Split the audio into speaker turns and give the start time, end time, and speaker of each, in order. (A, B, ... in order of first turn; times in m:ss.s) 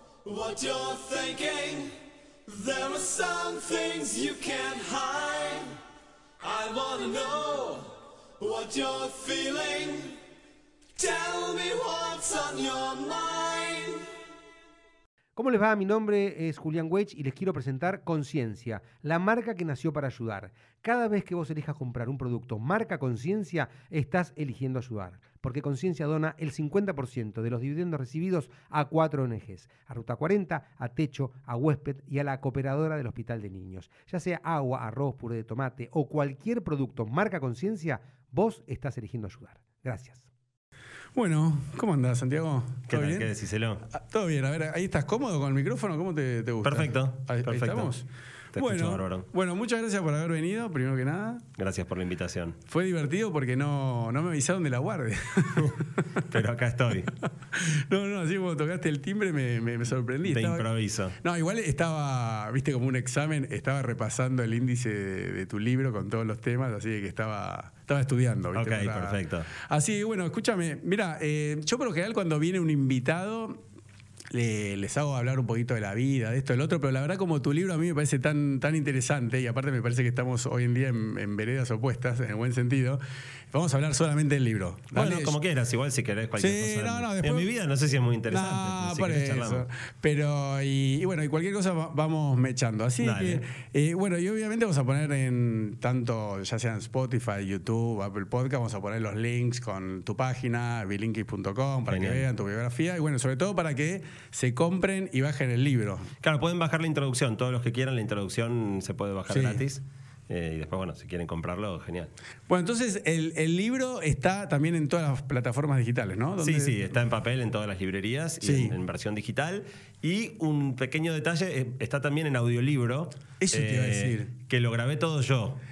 0:00.2-0:01.9 A
0:02.4-0:05.8 A
0:06.4-0:10.2 A
0:11.0-0:14.0 A
0:15.4-0:40.3 B
0:41.1-0:43.3 C
0:42.9-0:43.8 D
0:43.9-0:51.4 C
0:46.6-0:47.9 D
0:48.5-0:49.3 D
0:51.6-0:52.6 D
0:52.7-0:55.8 C
0:55.6-0:57.1 D
0:57.5-1:00.6 C
1:00.2-1:01.2 D
1:01.2-1:13.6 C
1:08.5-1:09.5 D
1:14.3-1:25.4 C
1:24.9-1:29.6 D
1:26.4-1:27.5 C
1:28.3-1:46.1 C
1:33.0-1:33.4 D
1:41.9-1:42.2 D
1:46.2-1:52.1 D
1:49.3-1:49.6 C
1:52.5-1:56.9 C
1:56.4-2:05.6 D
1:58.4-1:58.8 C
2:03.4-2:04.3 C